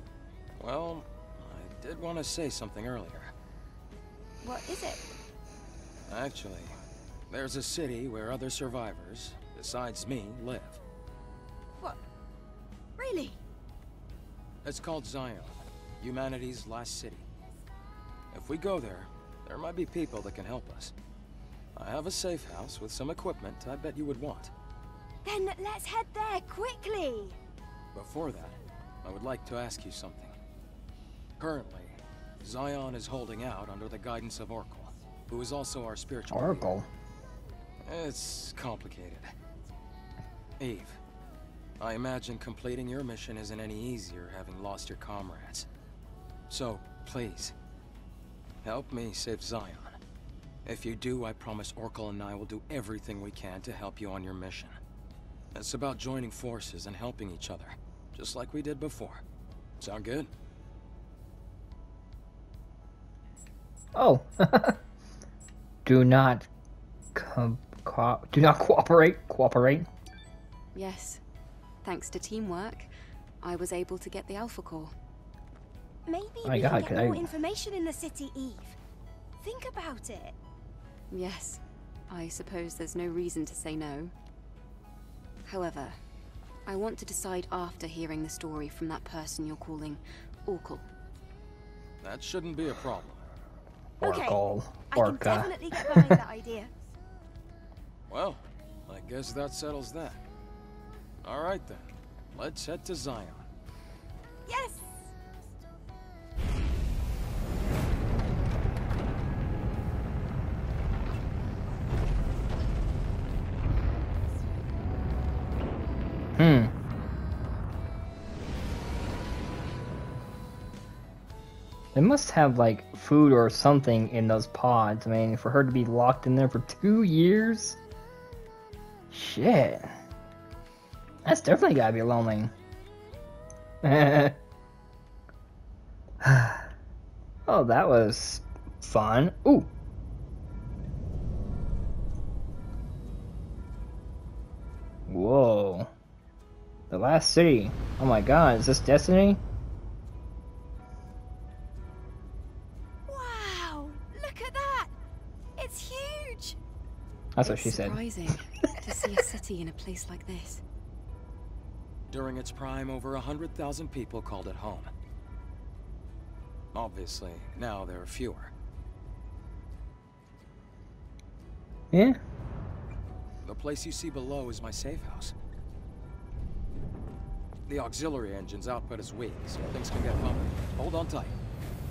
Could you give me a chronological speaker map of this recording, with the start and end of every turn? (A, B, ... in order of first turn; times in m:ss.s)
0:00.6-0:03.3 A
0:04.4-0:05.0 B
0:06.1-0:06.8 A
0:07.3-0:10.8 A
0:13.0-0:13.4 B
0:14.6-0:17.3 A
0:18.3-0:20.9 A
0:21.8-0:24.5 A
0:25.2-0:27.4 B
0:27.9-0:30.4 A
0:31.4-0:36.7 A
0:36.3-0:36.9 C
0:37.8-0:39.3 A
0:40.6-0:41.0 A
0:41.8-0:45.7 A
0:46.5-0:47.6 A
0:48.6-0:50.0 A
0:50.6-0:54.8 A
0:55.5-0:59.2 A
0:59.8-1:00.3 A
1:04.0-1:04.8 C
1:05.9-1:06.5 C
1:07.2-1:09.9 C
1:10.8-1:11.2 D
1:11.8-1:14.9 D
1:16.1-1:18.8 B
1:16.4-1:17.3 C
1:19.4-1:20.4 B
1:21.1-1:24.1 D
1:25.5-1:26.0 D
1:26.7-1:30.9 D
1:32.0-1:33.2 A
1:34.0-1:36.1 C
1:34.0-1:34.4 B
1:34.9-1:36.7 B
1:38.1-1:40.2 A
1:41.2-1:43.5 A
1:44.5-1:45.1 B
1:56.4-1:56.7 C
2:02.0-2:07.8 C
2:09.1-2:09.9 C
2:11.2-2:12.5 C
2:13.8-2:14.4 C
2:16.2-2:16.7 C
2:17.5-2:19.7 C
2:25.1-2:25.9 C
2:26.9-2:29.4 C
2:33.1-2:34.9 B
2:35.6-2:36.6 B
2:37.4-2:38.4 C
2:37.4-2:40.6 D
2:42.1-2:44.9 A
2:46.7-2:48.5 A
2:51.9-2:52.2 C
2:53.4-2:55.3 A
2:57.7-3:01.4 A